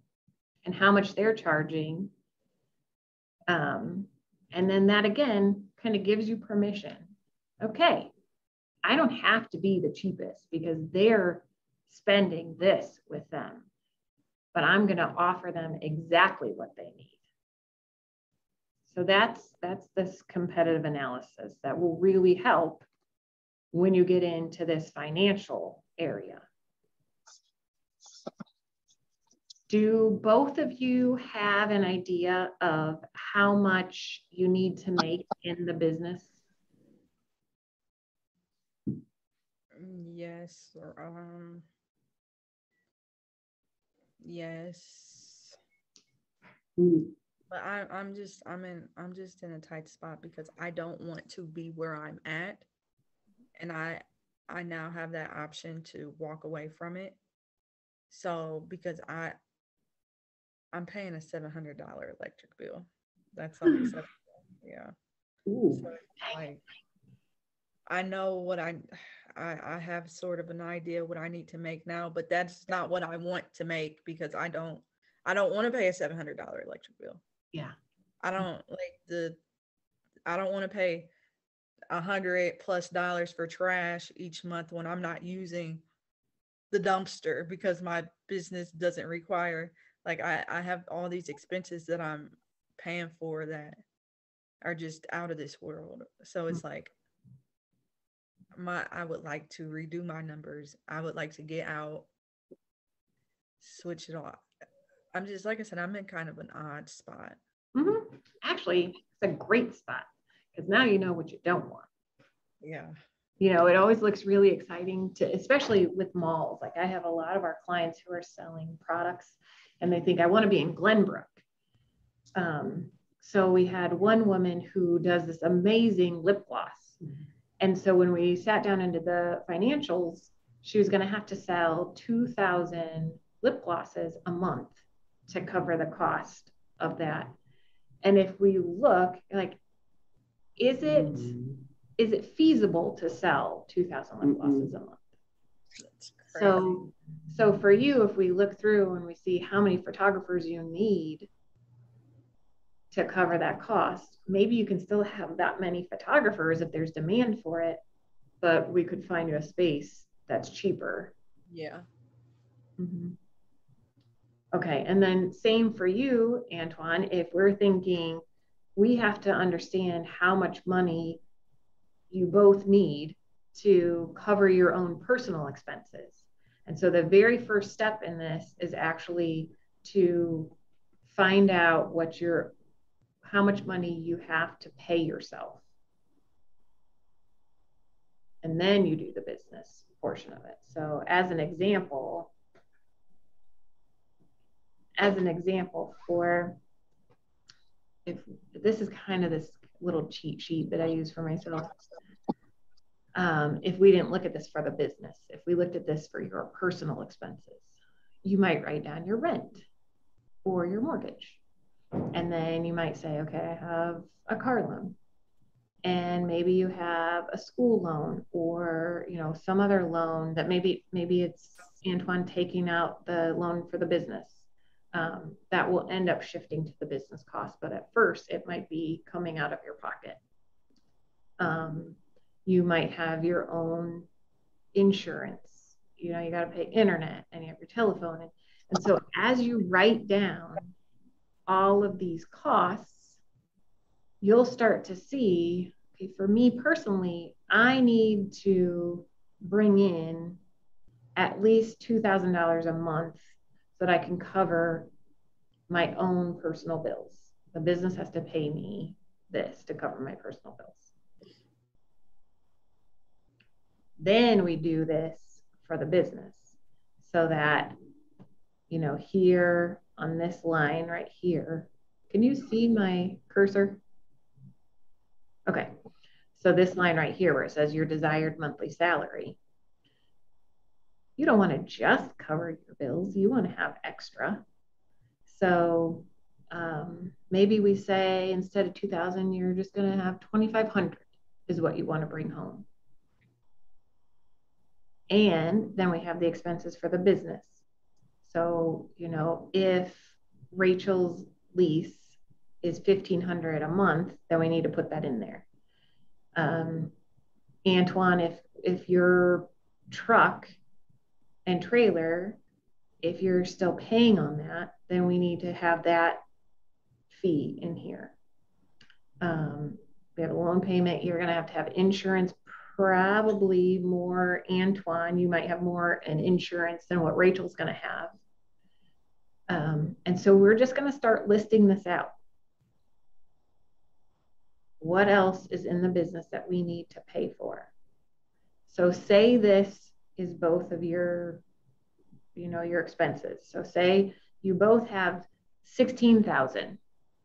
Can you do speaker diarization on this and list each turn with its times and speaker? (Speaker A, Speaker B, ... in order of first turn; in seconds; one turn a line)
Speaker A: 0.6-2.1
Speaker A: 3.5-8.1
Speaker A: 8.8-13.7
Speaker A: 14.5-17.2
Speaker A: 18.9-22.9
Speaker A: 23.7-26.4
Speaker A: 29.7-36.3
Speaker B: 39.8-41.6
Speaker B: 44.2-45.6
Speaker C: 46.8-47.1
Speaker B: 47.5-52.6
Speaker B: 53.6-57.1
Speaker B: 58.1-59.4
Speaker B: 60.7-64.9
Speaker C: 65.5-65.9
Speaker B: 65.8-66.6
Speaker B: 67.9-77.2
Speaker B: 78.2-79.4
Speaker B: 80.2-81.1
Speaker B: 81.9-85.8
Speaker B: 86.7-93.8
Speaker B: 94.6-96.9
Speaker B: 98.5-102.1
Speaker B: 103.6-104.4
Speaker B: 105.1-107.4
Speaker A: 107.7-111.9
Speaker B: 112.6-113.0
Speaker A: 113.4-121.4
Speaker A: 122.3-127.0
Speaker A: 127.6-137.3
Speaker A: 138.0-139.6
Speaker A: 140.6-141.3
Speaker C: 140.8-141.6
Speaker A: 142.0-145.0
Speaker C: 144.2-144.7
Speaker B: 145.8-146.9
Speaker A: 146.3-151.3
Speaker A: 152.9-157.8
Speaker A: 158.4-161.1
Speaker B: 161.5-161.8
Speaker A: 162.8-163.2
Speaker A: 164.5-168.2
Speaker A: 168.8-171.2
Speaker A: 172.1-180.5
Speaker A: 181.1-182.5
Speaker A: 183.2-185.6
Speaker A: 188.4-192.3
Speaker A: 195.0-196.6
Speaker A: 198.1-201.8
Speaker A: 203.1-209.6
Speaker A: 210.4-211.4
Speaker A: 212.1-215.0
Speaker A: 215.8-230.2
Speaker A: 231.4-234.1
Speaker A: 234.7-240.7
Speaker A: 241.5-243.2
Speaker A: 244.2-250.4
Speaker A: 251.2-253.2
Speaker A: 253.8-254.9
Speaker A: 255.7-260.9
Speaker A: 264.0-267.8
Speaker A: 268.7-273.8
Speaker A: 275.5-275.7
Speaker A: 276.4-279.4
Speaker A: 281.2-284.4
Speaker A: 285.3-292.6
Speaker A: 295.1-297.6
Speaker A: 298.2-305.4
Speaker A: 306.3-306.9
Speaker A: 307.6-310.5
Speaker A: 311.4-312.4
Speaker A: 313.0-316.2
Speaker A: 317.1-318.1
Speaker A: 319.2-328.1
Speaker A: 329.5-332.1
Speaker A: 334.8-337.7
Speaker A: 338.7-341.4
Speaker A: 342.3-346.8